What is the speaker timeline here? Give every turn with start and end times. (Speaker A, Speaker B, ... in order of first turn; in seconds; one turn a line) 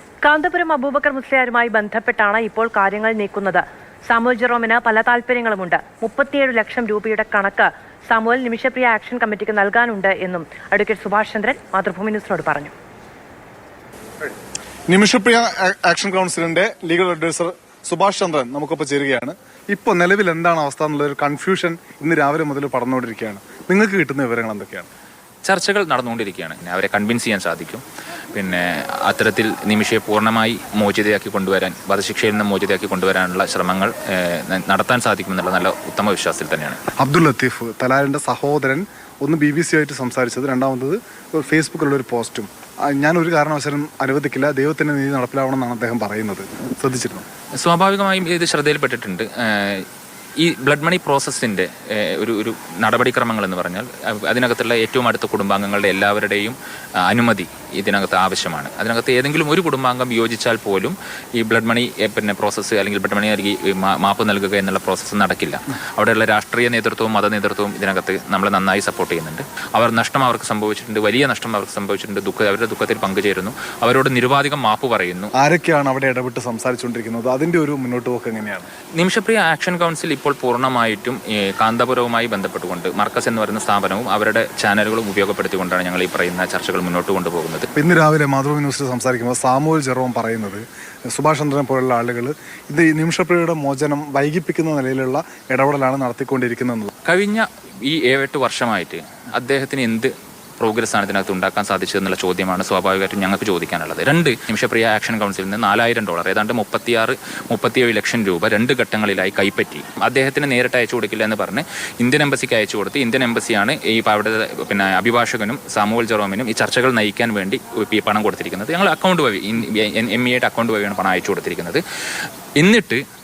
Speaker A: 0.2-12.7
Speaker B: 14.9-24.9
Speaker C: 25.4-36.8
Speaker B: 37.0-47.2
Speaker C: 47.6-49.9
Speaker C: 50.4-75.3
Speaker B: 75.3-78.7
Speaker C: 79.0-87.7
Speaker B: 87.7-96.9
Speaker C: 97.0-121.8
Speaker C: 122.6-123.0